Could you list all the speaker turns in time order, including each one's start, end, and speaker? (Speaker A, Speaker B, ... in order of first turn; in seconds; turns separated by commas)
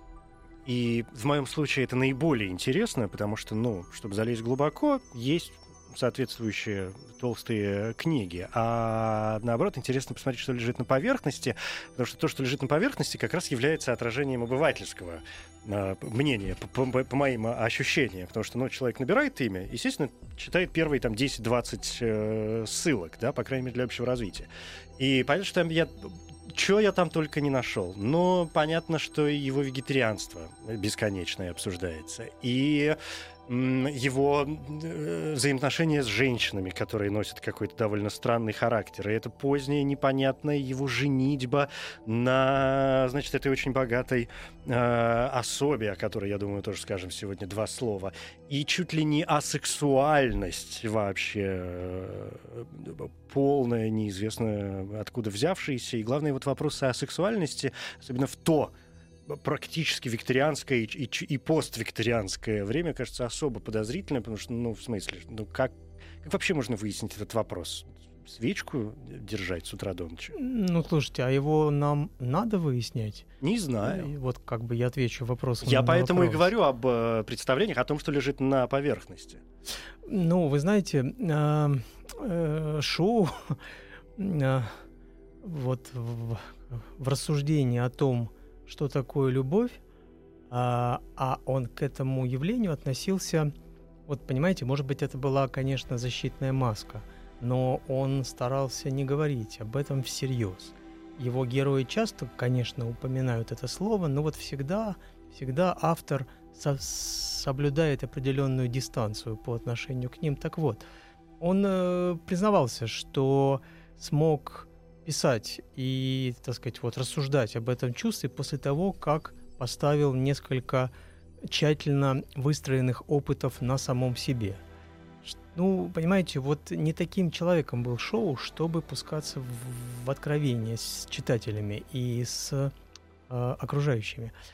Speaker A: 0.7-58.7, Speaker A: 59.3-70.3, Speaker B: 70.3-73.3, Speaker A: 73.4-74.1, Speaker B: 73.8-76.4, Speaker A: 75.6-79.4, Speaker B: 80.0-83.6, Speaker B: 84.2-84.8, Speaker B: 85.4-89.8, Speaker B: 90.5-93.5, Speaker B: 94.1-110.9, Speaker B: 111.4-120.9, Speaker B: 121.5-124.6, Speaker B: 125.2-132.7, Speaker B: 133.3-134.3